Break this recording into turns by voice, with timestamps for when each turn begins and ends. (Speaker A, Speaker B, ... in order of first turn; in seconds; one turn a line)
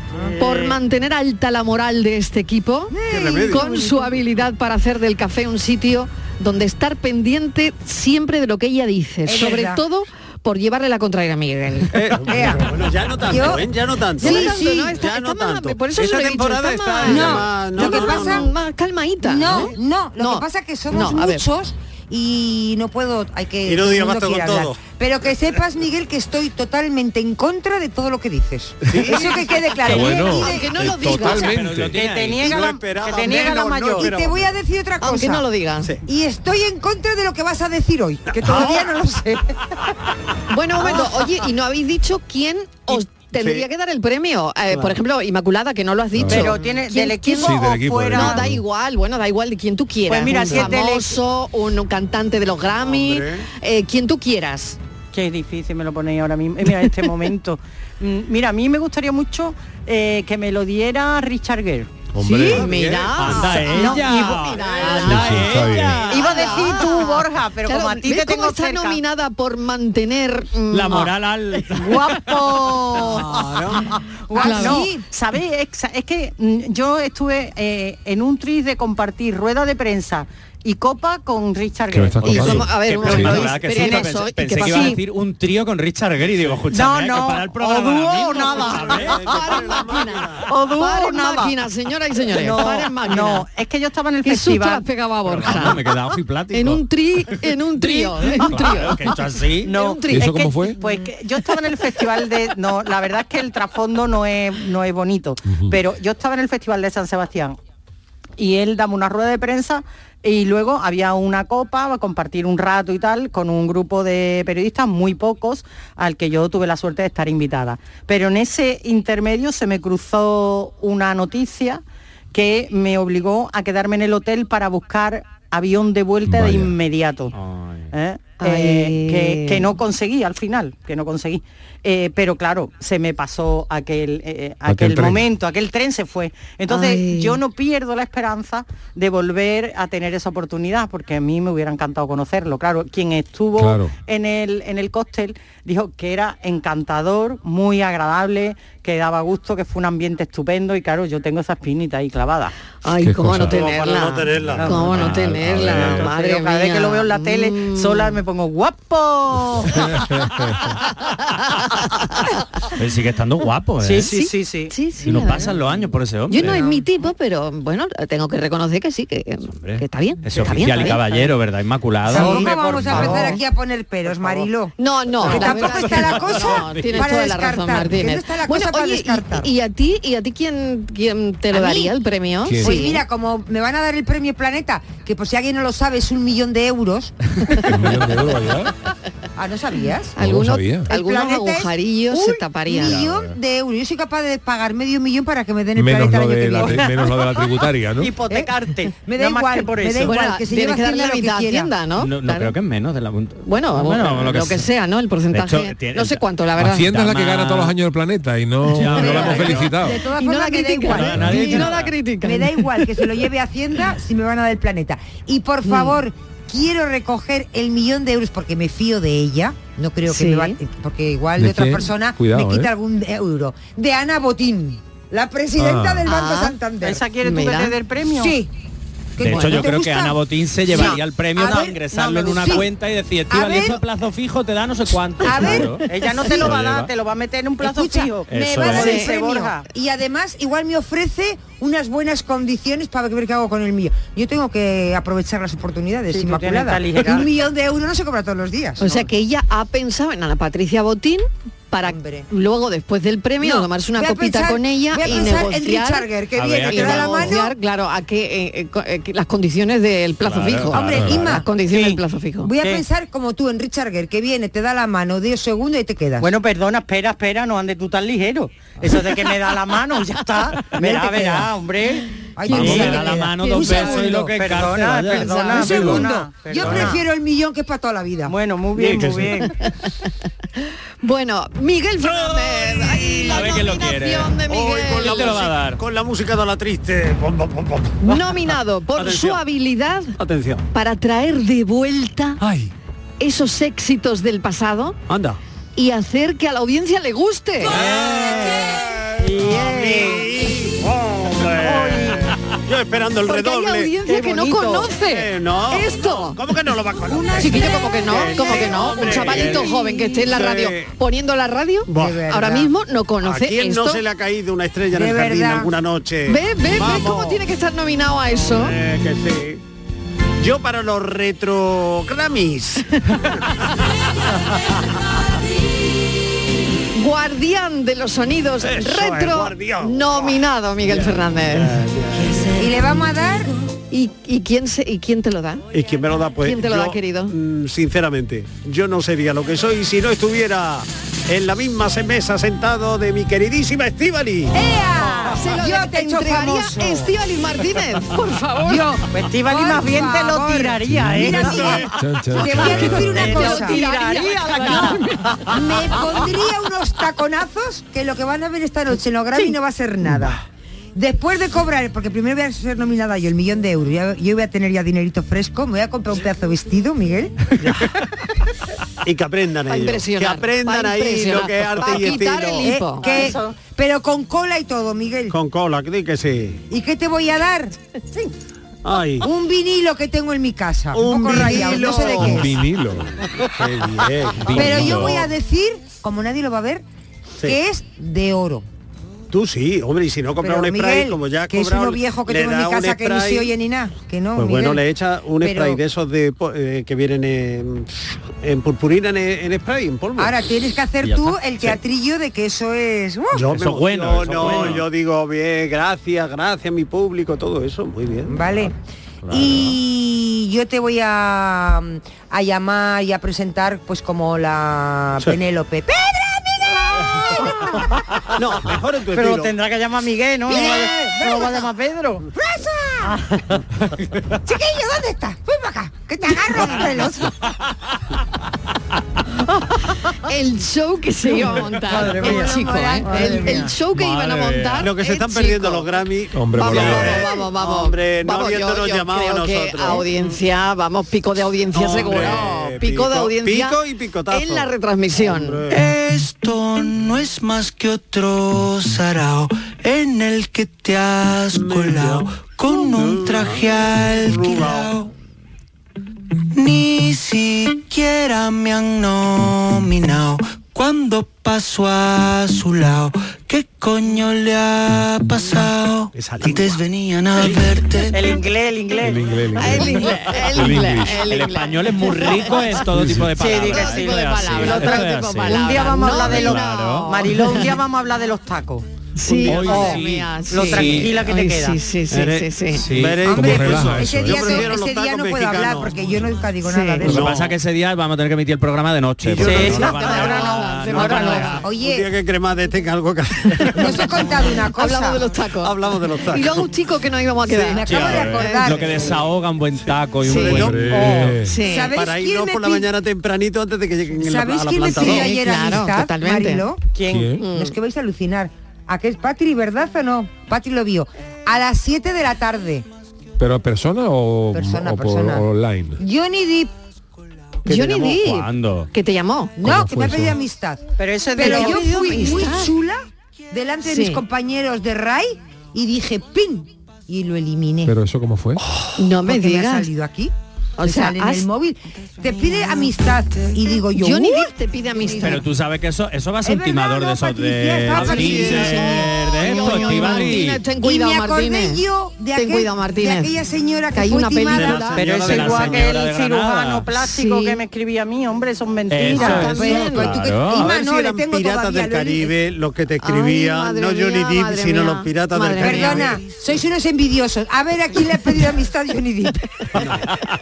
Speaker A: 0.4-2.9
Speaker B: 2.9-4.1
Speaker C: 3.1-3.8
Speaker A: 3.5-11.9
Speaker B: 9.2-9.8
Speaker C: 11.9-18.5
Speaker B: 12.3-12.7
Speaker B: 13.2-15.0
Speaker A: 14.2-21.4
Speaker B: 17.0-18.5
Speaker B: 19.2-31.4
Speaker C: 23.6-24.8
Speaker C: 28.9-29.3
Speaker A: 29.1-31.6
Speaker D: 29.8-31.9
Speaker E: 31.2-32.6
Speaker F: 31.9-34.1
Speaker C: 32.3-34.5
Speaker B: 34.0-35.5
Speaker A: 35.0-35.9
Speaker B: 36.0-39.5
Speaker C: 38.4-38.8
Speaker A: 40.5-54.8
Speaker C: 42.9-43.6
Speaker C: 44.7-45.0
Speaker D: 46.1-46.5
Speaker F: 46.3-48.4
Speaker D: 47.4-48.6
Speaker F: 50.1-51.2
Speaker C: 50.3-50.7
Speaker C: 52.8-53.5
Speaker F: 55.1-62.0
Speaker D: 62.1-62.7
Speaker A: 62.2-71.1
Speaker C: 62.5-63.8
Speaker E: 63.1-66.8
Speaker F: 63.6-65.2
Speaker D: 65.0-66.0
Speaker F: 66.1-69.0
Speaker E: 70.7-73.6
Speaker F: 71.8-73.5
Speaker C: 73.3-73.8
Speaker F: 74.3-82.6
Speaker B: 74.3-75.0
Speaker A: 74.3-74.9
Speaker D: 81.9-83.4
Speaker E: 82.2-89.3
Speaker A: 82.2-85.0
Speaker F: 83.5-85.0
Speaker F: 86.7-89.2
Speaker C: 88.3-90.5
Speaker A: 89.2-93.5
Speaker F: 90.5-91.5
Speaker F: 92.3-94.8
Speaker A: 94.2-95.8
Speaker E: 95.3-96.8
Speaker A: 96.5-99.0
Speaker E: 98.2-99.7
Speaker F: 99.6-107.6
Speaker A: 99.7-100.3
Speaker D: 100.1-100.8
Speaker D: 105.5-105.8
Speaker F: 108.4-121.8
Speaker F: 122.3-127.3
Speaker D: 126.2-126.7
Speaker E: 127.3-127.9
Speaker F: 127.9-152.5
Speaker A: 128.4-129.7
Speaker D: 134.7-135.2
Speaker A: 136.7-137.4
Speaker D: 143.6-143.9
Speaker A: 152.8-158.2
Speaker D: 153.0-153.6
Speaker C: 153.4-156.1
Speaker E: 154.7-156.0
Speaker D: 155.4-155.7
Speaker F: 155.8-159.9
Speaker D: 160.0-160.5
Speaker A: 161.4-161.7
Speaker E: 162.7-164.1
Speaker F: 163.8-164.7
Speaker A: 164.0-165.5
Speaker E: 165.0-166.6
Speaker A: 166.3-171.1
Speaker B: 166.4-166.8
Speaker E: 169.4-173.3
Speaker B: 172.1-179.5
Speaker A: 172.1-173.4
Speaker F: 172.1-173.4
Speaker A: 174.8-183.0
Speaker E: 175.3-176.5
Speaker B: 181.5-181.9
Speaker D: 182.4-182.8
Speaker B: 182.6-187.2
Speaker D: 187.7-188.7
Speaker B: 189.3-190.1
Speaker A: 190.2-193.0
Speaker D: 190.2-190.9
Speaker B: 190.9-196.9
Speaker E: 192.8-193.4
Speaker D: 195.8-198.1
Speaker F: 196.6-197.3
Speaker F: 198.0-200.3
Speaker B: 199.0-201.7
Speaker A: 200.0-202.5
Speaker E: 202.0-204.7
Speaker A: 203.4-206.9
Speaker E: 205.3-207.7
Speaker D: 206.6-210.0
Speaker E: 208.7-209.7
Speaker B: 208.9-227.0
Speaker A: 209.2-209.5
Speaker A: 210.2-212.9
Speaker E: 210.9-211.9
Speaker D: 211.2-211.5
Speaker A: 215.7-216.0
Speaker A: 220.1-220.6
Speaker D: 221.4-222.7
Speaker D: 225.6-226.1
Speaker A: 226.1-226.6
Speaker F: 226.8-228.3
Speaker A: 227.2-227.8
Speaker B: 228.2-228.5
Speaker B: 229.2-230.2
Speaker E: 229.2-236.9
Speaker A: 229.3-229.6
Speaker B: 230.7-232.7
Speaker F: 231.9-232.6
Speaker B: 233.3-233.8
Speaker B: 235.2-235.8
Speaker F: 235.8-239.7
Speaker B: 237.6-249.1
Speaker E: 238.3-238.9
Speaker A: 238.7-239.1
Speaker F: 246.1-247.3
Speaker A: 248.8-256.1
Speaker B: 251.8-252.3
Speaker B: 253.4-257.5
Speaker E: 255.1-255.4
Speaker E: 256.3-257.4
Speaker A: 256.6-262.5
Speaker E: 260.2-261.4
Speaker B: 260.7-261.5
Speaker F: 261.7-262.0
Speaker B: 262.4-266.3
Speaker F: 266.2-273.0
Speaker B: 270.8-271.5
Speaker B: 272.4-274.4
Speaker A: 272.5-273.9
Speaker E: 272.5-276.1
Speaker F: 273.6-277.0
Speaker A: 275.1-275.9
Speaker B: 275.5-278.3
Speaker E: 276.6-276.9
Speaker F: 278.3-279.5
Speaker C: 278.8-279.3
Speaker E: 278.8-279.2
Speaker A: 281.0-285.5
Speaker E: 282.9-284.4
Speaker C: 284.5-288.3
Speaker E: 285.0-285.8
Speaker A: 288.0-290.1
Speaker C: 288.9-289.4
Speaker C: 290.2-290.6
Speaker A: 290.7-292.4
Speaker C: 292.4-292.7
Speaker A: 293.2-295.0
Speaker C: 295.1-295.4
Speaker A: 295.8-297.8
Speaker C: 297.6-303.9
Speaker F: 299.2-300.6
Speaker F: 301.6-302.2
Speaker A: 303.2-306.4
Speaker F: 304.0-304.9
Speaker C: 305.0-310.9
Speaker B: 307.1-307.7
Speaker A: 307.4-314.0
Speaker C: 311.9-312.2
Speaker B: 311.9-312.7
Speaker C: 313.2-317.4
Speaker B: 314.9-315.7
Speaker A: 316.3-318.7
Speaker C: 318.3-319.6
Speaker C: 320.4-323.7
Speaker C: 324.2-324.8
Speaker A: 326.9-331.8
Speaker C: 328.6-332.5
Speaker B: 332.2-333.5
Speaker A: 333.9-335.6
Speaker C: 335.7-344.5
Speaker A: 336.4-337.3
Speaker B: 344.5-347.1
Speaker A: 345.3-348.9
Speaker B: 348.6-353.8
Speaker F: 349.1-351.9
Speaker D: 350.9-351.4
Speaker C: 351.5-351.8
Speaker D: 351.9-353.4
Speaker F: 352.4-355.5
Speaker A: 352.6-355.5
Speaker B: 355.5-360.4
Speaker B: 360.9-367.4
Speaker C: 367.6-367.9
Speaker C: 369.0-372.7
Speaker A: 369.7-373.1
Speaker B: 372.6-375.4
Speaker F: 373.0-373.6
Speaker C: 375.3-376.6
Speaker B: 376.7-377.7
Speaker C: 378.8-379.3
Speaker B: 379.2-382.5
Speaker C: 380.9-382.5
Speaker D: 382.2-383.1
Speaker C: 383.2-385.3
Speaker E: 384.4-385.3
Speaker B: 384.5-386.8
Speaker B: 387.4-388.6
Speaker C: 389.3-393.5
Speaker B: 390.4-394.8
Speaker C: 394.3-400.4
Speaker B: 395.4-395.8
Speaker B: 400.2-403.5
Speaker E: 401.0-401.8
Speaker C: 403.3-408.4
Speaker E: 403.5-404.9
Speaker B: 408.3-408.7
Speaker E: 409.2-409.8
Speaker B: 409.3-418.0
Speaker C: 418.3-419.6
Speaker F: 419.1-422.3
Speaker B: 420.5-421.7
Speaker B: 422.3-423.2
Speaker F: 423.1-423.4
Speaker B: 424.4-427.3
Speaker A: 430.2-435.9
Speaker F: 431.9-433.7
Speaker B: 431.9-433.6
Speaker E: 433.9-434.9
Speaker C: 434.8-440.3
Speaker D: 436.3-437.2
Speaker A: 436.5-443.8
Speaker C: 441.7-445.8
Speaker A: 444.3-445.6
Speaker G: 445.7-455.1
Speaker C: 451.5-454.9
Speaker G: 456.5-468.4
Speaker C: 466.1-466.8
Speaker F: 468.1-469.3
Speaker D: 469.0-471.2
Speaker A: 469.6-472.8
Speaker E: 471.3-477.4
Speaker D: 472.9-473.3
Speaker F: 473.3-478.9
Speaker A: 473.6-477.7
Speaker A: 479.1-482.9
Speaker C: 479.4-479.8
Speaker E: 479.4-481.2
Speaker F: 479.4-481.8
Speaker C: 482.1-485.9
Speaker E: 482.7-483.3
Speaker B: 483.2-487.4
Speaker D: 483.2-484.6
Speaker A: 486.6-487.1
Speaker E: 487.0-491.6
Speaker C: 487.0-487.5
Speaker C: 489.2-494.2
Speaker F: 489.4-491.6
Speaker A: 489.6-491.6
Speaker B: 491.6-492.1
Speaker B: 493.7-495.3
Speaker A: 494.8-495.7
Speaker C: 495.6-496.7
Speaker A: 496.3-498.9
Speaker B: 497.5-499.2
Speaker E: 497.8-501.1
Speaker A: 500.2-500.8
Speaker C: 500.2-501.3
Speaker D: 500.6-501.5
Speaker F: 501.0-501.3
Speaker A: 501.4-501.9
Speaker B: 501.5-502.9
Speaker C: 501.9-505.4
Speaker B: 504.1-506.8
Speaker A: 504.9-506.7
Speaker F: 506.9-507.4
Speaker D: 507.1-507.4
Speaker A: 507.4-507.8
Speaker B: 507.4-512.9
Speaker D: 513.4-516.0
Speaker B: 514.5-515.5
Speaker B: 516.0-516.7
Speaker A: 517.6-519.6
Speaker E: 517.7-518.9
Speaker B: 519.6-520.8
Speaker D: 519.6-520.4
Speaker F: 521.0-522.4
Speaker B: 521.3-527.9
Speaker A: 521.4-522.7
Speaker A: 523.8-524.2
Speaker D: 527.8-528.6
Speaker B: 528.7-535.4
Speaker A: 529.0-529.9
Speaker A: 530.8-531.5
Speaker A: 534.0-535.4
Speaker E: 535.2-540.6
Speaker B: 536.4-544.9
Speaker A: 537.9-541.8
Speaker C: 538.0-538.9
Speaker A: 542.3-543.4
Speaker A: 543.9-545.5
Speaker C: 544.4-545.9
Speaker F: 544.9-549.6
Speaker E: 545.0-546.9
Speaker A: 547.0-547.6
Speaker E: 548.9-550.7
Speaker A: 549.1-550.1
Speaker B: 549.1-552.3
Speaker C: 550.5-556.2
Speaker A: 553.0-556.2
Speaker B: 555.6-559.9
Speaker C: 559.7-560.0